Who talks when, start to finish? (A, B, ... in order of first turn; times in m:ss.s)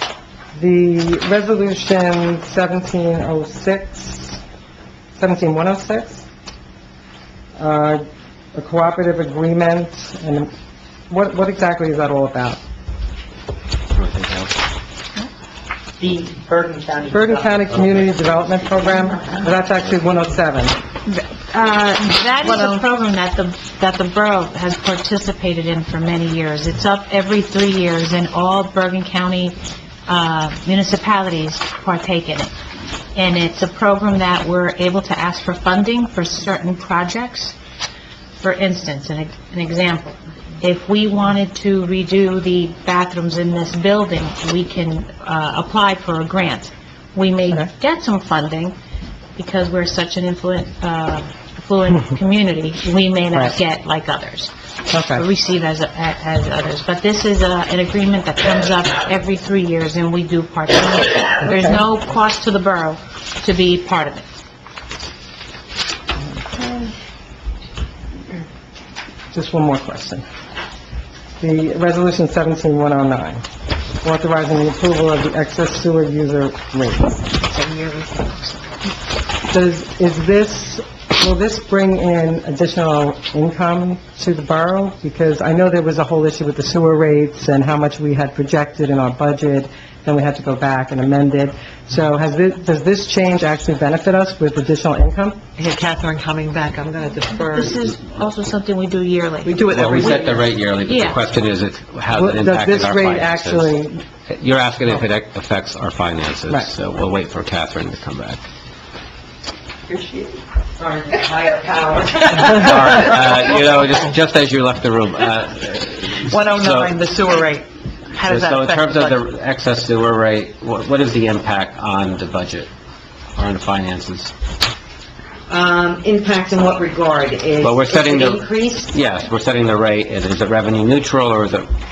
0:00.6-0:04.4 A
0:05.2-0:06.3 A
0:07.6-0:10.5 A
0:11.1-0:12.6 A
0:13.9-0:14.5 B
0:16.0-0:19.4 C
0:17.1-0:20.8 A
0:21.1-0:29.6 D
0:30.1-0:32.5 D
0:33.1-0:37.6 D
0:38.4-0:48.8 D
0:49.4-0:54.5 D
0:54.9-0:55.2 A
0:55.1-1:04.3 D
1:01.4-1:01.8 A
1:06.4-1:06.9 A
1:09.3-1:10.2 A
1:11.4-1:13.4 A
1:14.0-1:17.2 A
1:17.5-1:18.7 E
1:19.5-1:35.4 A
1:35.6-1:37.8 E
1:37.5-1:40.2 D
1:39.4-1:40.5 E
1:39.6-1:43.7 B
1:40.8-1:41.2 D
1:42.1-1:44.0 A
1:44.3-1:48.4 B
1:49.9-1:50.4 C
1:52.3-1:57.0 B
1:56.3-1:59.2 E
1:58.2-2:02.7 B
2:03.4-2:04.3 B
2:05.5-2:08.6 F
2:07.6-2:11.7 B